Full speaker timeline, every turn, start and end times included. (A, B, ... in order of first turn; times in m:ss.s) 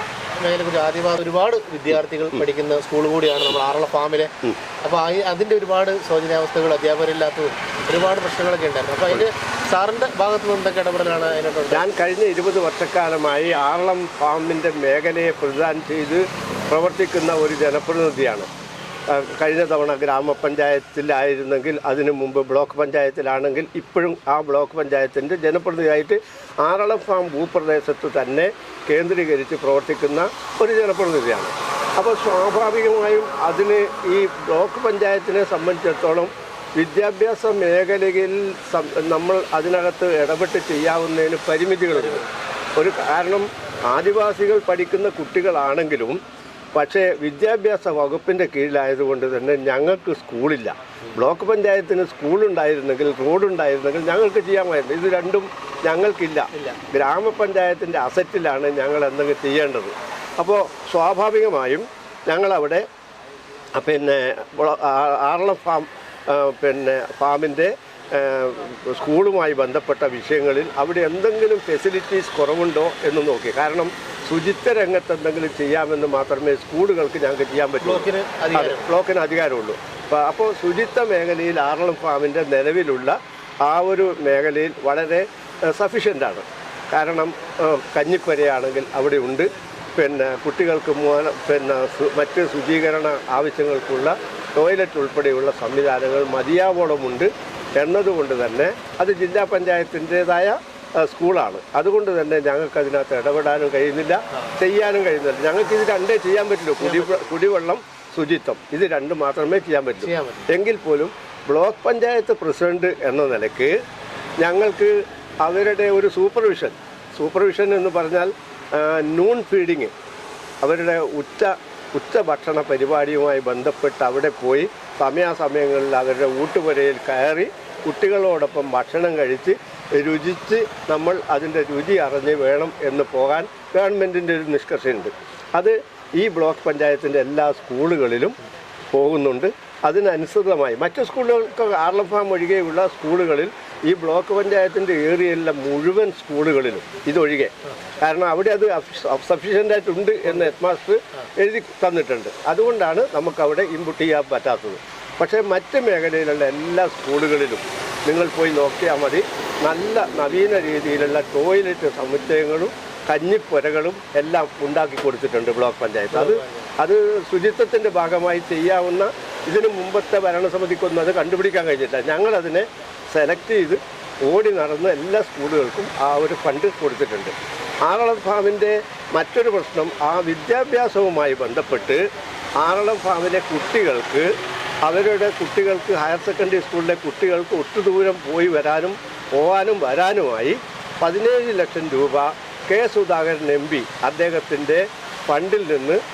0:00.4-0:11.9 A
0:11.7-0:18.5 B
0:19.1-0:42.2 B
0:41.9-0:42.3 A
0:42.8-0:46.2 B
0:46.7-1:02.8 B
0:56.5-0:56.8 A
1:03.8-1:53.8 B
1:17.8-1:18.9 A
1:46.8-1:47.3 A
1:50.0-1:50.5 A
1:54.4-1:59.9 B
2:00.6-2:18.4 B
2:18.9-2:57.3 B
2:46.1-2:46.7 A
2:57.8-3:02.0 B
3:02.6-3:04.3 B
3:04.8-3:16.0 B